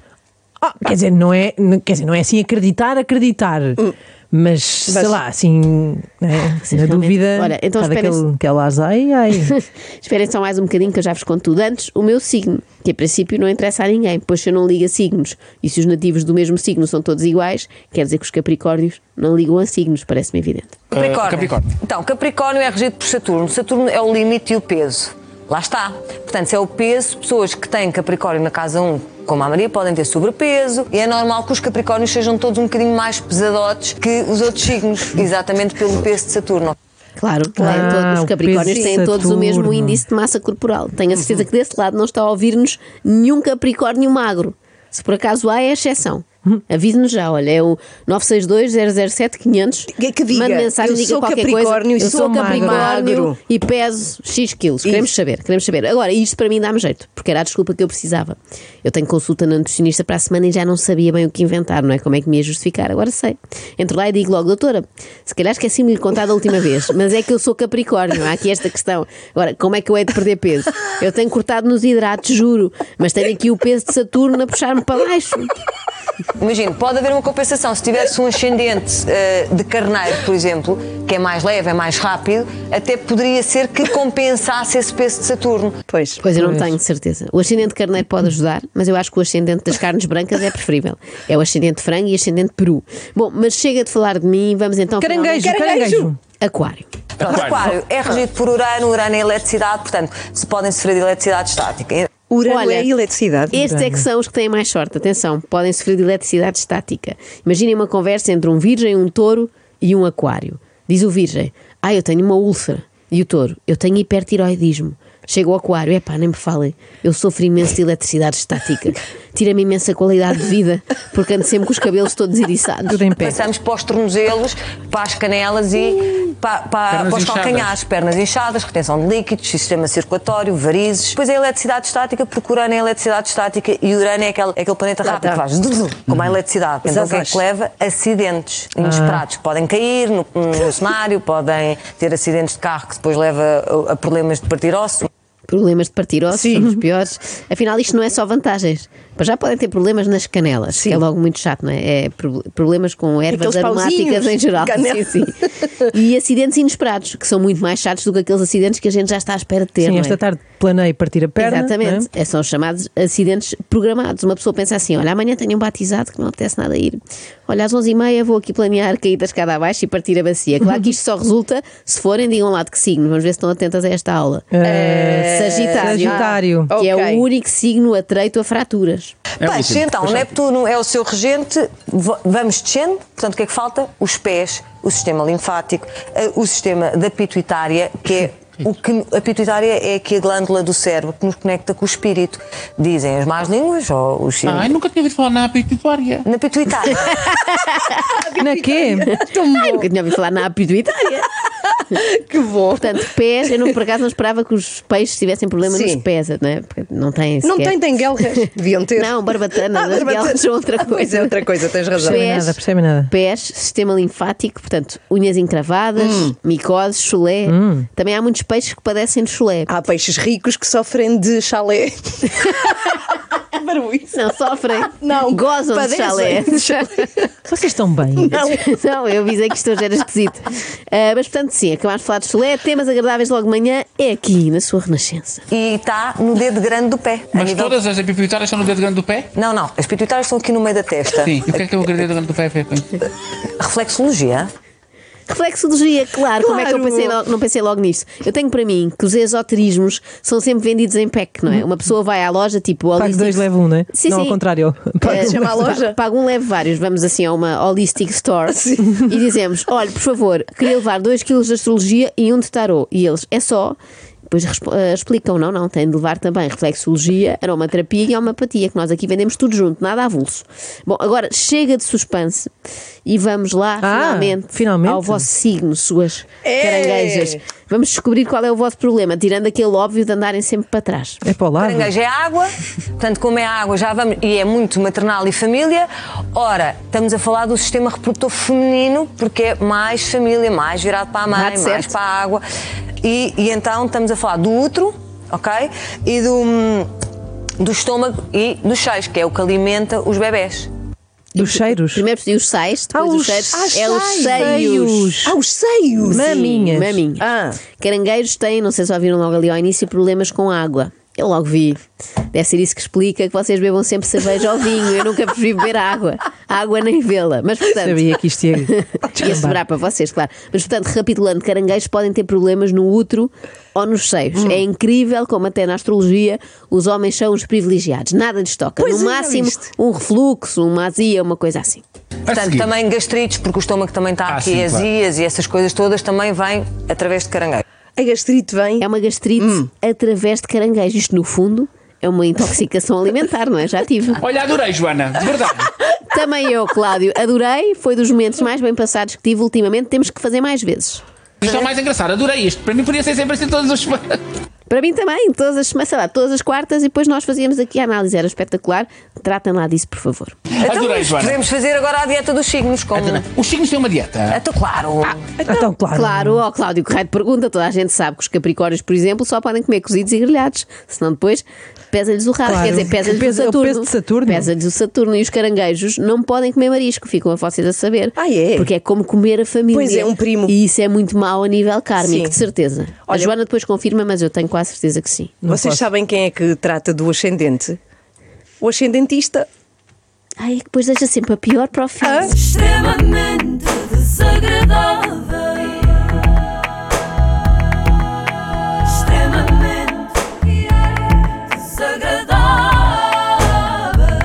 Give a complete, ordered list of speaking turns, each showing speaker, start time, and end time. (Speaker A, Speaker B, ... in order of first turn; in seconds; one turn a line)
Speaker A: 0.6-9.5
Speaker B: 4.9-5.2
Speaker C: 6.6-8.2
Speaker C: 9.4-20.8
Speaker D: 20.9-36.7
Speaker E: 20.9-21.7
Speaker C: 37.2-75.5
Speaker A: 37.6-40.0
Speaker B: 49.9-53.4
Speaker A: 52.0-52.9
Speaker D: 76.4-85.8
Speaker B: 85.9-86.2
Speaker C: 86.2-95.6
Speaker A: 86.3-86.8
Speaker A: 95.0-96.2
Speaker B: 95.4-96.1
Speaker C: 96.4-96.9
Speaker E: 97.2-97.7
Speaker D: 97.2-102.1
Speaker B: 102.3-103.5
Speaker C: 102.4-102.9
Speaker C: 103.5-123.0
Speaker A: 103.5-104.0
Speaker A: 122.9-123.4
Speaker D: 123.2-145.1
Speaker E: 126.9-127.7
Speaker B: 135.0-135.4
Speaker E: 136.1-136.3
Speaker B: 136.8-137.4
Speaker A: 138.8-139.2
Speaker C: 145.5-155.3
Speaker B: 146.3-146.7
Speaker B: 150.7-151.0
Speaker B: 153.3-155.8
Speaker C: 155.9-160.2
Speaker A: 159.8-162.1
Speaker C: 161.4-174.5
Speaker A: 174.5-176.7
Speaker B: 174.6-177.2
Speaker C: 175.3-179.1
Speaker E: 179.4-180.3
Speaker D: 179.4-194.7
Speaker E: 194.4-196.2
Speaker D: 196.2-197.2
Speaker C: 197.1-198.0
Speaker B: 198.1-199.9
Speaker A: 198.4-199.1
Speaker C: 199.6-201.3
Speaker B: 201.9-203.0
Speaker C: 202.8-207.8
Speaker B: 205.6-206.0
Speaker B: 207.4-212.4
Speaker C: 208.3-211.4
Speaker C: 212.0-219.7
Speaker A: 212.0-213.1
Speaker B: 216.0-216.3
Speaker A: 217.4-217.9
Speaker B: 219.7-222.4
Speaker B: 223.5-224.1
Speaker C: 224.1-227.1
Speaker B: 224.9-227.3
Speaker A: 227.5-228.4
Speaker B: 228.2-228.6
Speaker C: 228.3-235.4
Speaker D: 235.5-237.8
Speaker E: 237.3-239.3
Speaker D: 239.3-241.7
Speaker E: 241.1-243.1
Speaker D: 243.6-244.5
Speaker C: 245.3-254.4
Speaker B: 246.4-247.2
Speaker A: 252.9-255.5
Speaker B: 255.0-255.9
Speaker C: 255.0-272.5
Speaker B: 258.5-259.0
Speaker C: 273.0-281.2
Speaker A: 273.8-275.2
Speaker B: 276.4-277.4
Speaker A: 281.2-281.9
Speaker D: 281.6-292.4
Speaker C: 291.3-291.9
Speaker D: 293.0-296.9
Speaker D: 297.6-300.7
Speaker A: 301.3-302.0
Speaker C: 301.9-305.1
Speaker A: 302.9-305.4
Speaker B: 303.5-306.6
Speaker A: 306.1-307.0
Speaker C: 306.1-311.8
Speaker B: 307.2-307.6
Speaker C: 312.3-318.1
Speaker A: 317.7-319.6
Speaker C: 318.7-331.8
Speaker B: 328.8-329.7
Speaker E: 332.3-332.7
Speaker D: 332.3-337.6
Speaker E: 334.2-334.9
Speaker B: 338.0-338.9
Speaker C: 338.8-344.2
Speaker B: 339.4-339.6
Speaker E: 344.2-345.7
Speaker C: 346.1-351.0
Speaker E: 351.4-354.2
Speaker C: 354.7-360.3
Speaker E: 360.5-361.4
Speaker D: 360.6-363.2
Speaker E: 362.9-364.4
Speaker D: 364.3-365.2
Speaker A: 365.4-366.4
Speaker C: 365.9-385.4
Speaker A: 372.4-374.5
Speaker B: 378.1-378.7
Speaker B: 379.7-380.5
Speaker B: 382.0-382.4
Speaker A: 385.4-385.9
Speaker B: 385.5-387.8
Speaker B: 388.6-389.5
Speaker C: 390.4-392.4
Speaker B: 392.0-392.4